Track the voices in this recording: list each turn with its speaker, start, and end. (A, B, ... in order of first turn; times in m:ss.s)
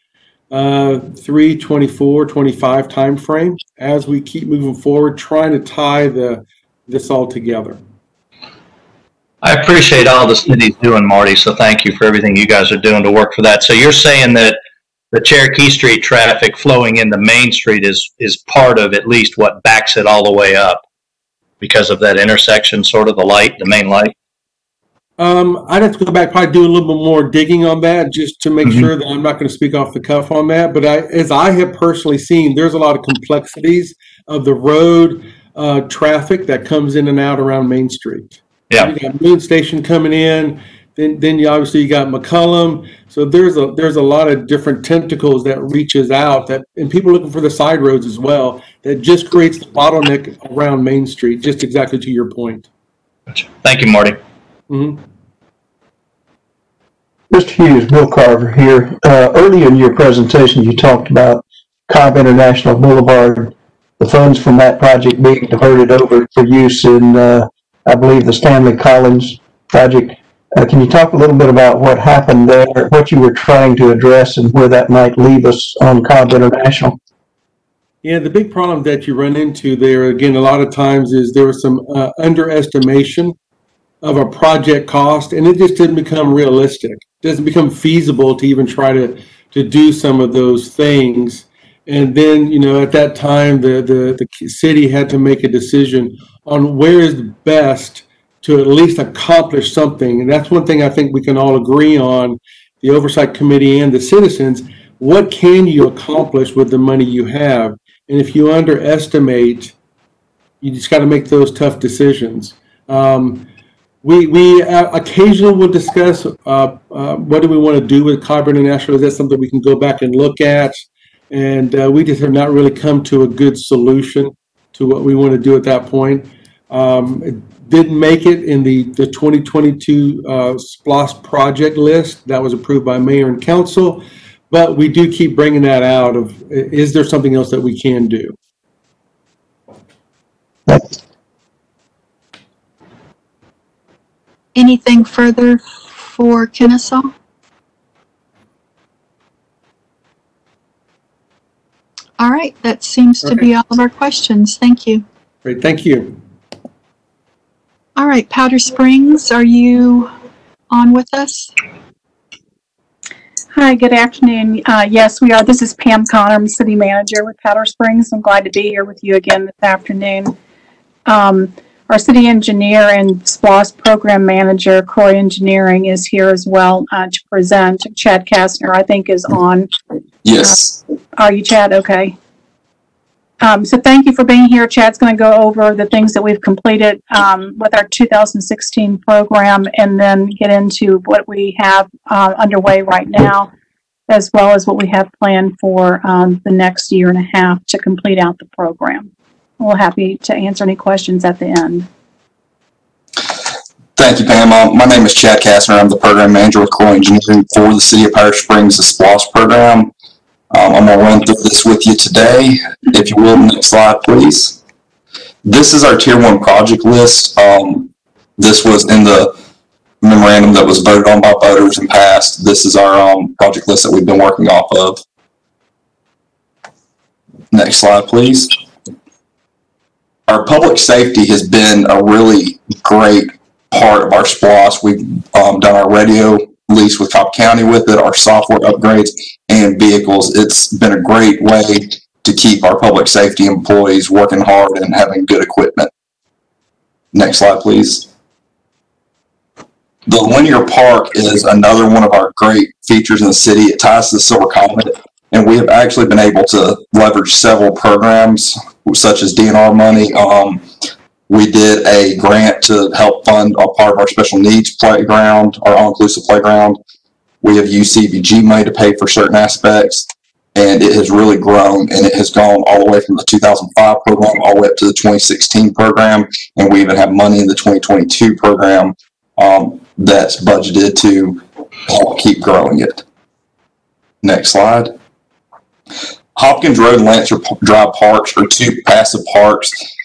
0:00.5-0:07.8 A
0:09.4-0:14.6 B
0:15.1-0:20.8 B
0:21.6-0:24.1 B
0:25.2-0:52.7 A
0:53.3-0:54.2 B
0:54.7-0:55.0 A
0:57.3-1:17.0 C
1:18.0-1:23.3 A
1:24.0-1:49.7 A
1:50.6-1:53.5 A
1:54.0-2:18.3 A
2:20.7-2:20.9 C
2:24.5-2:27.1 D
2:32.2-2:35.0 D
2:35.4-2:36.2 A
2:38.0-2:40.1 D
2:40.7-2:41.5 D
2:43.5-2:50.3 E
2:51.0-2:59.7 E
3:00.2-3:00.7 F
3:01.1-3:02.2 E
3:03.4-3:13.5 E
3:14.1-3:21.9 E
3:24.0-3:29.9 F
3:30.5-3:34.6 F
3:35.4-3:39.3 F
3:40.0-3:45.0 F
3:47.5-3:48.5 F
3:50.3-4:05.9 F
4:07.1-4:08.1 F
4:10.0-4:20.6 F
4:21.3-4:26.8 F
4:27.4-4:43.0 F
4:44.2-4:44.9 F
4:46.3-4:49.8 F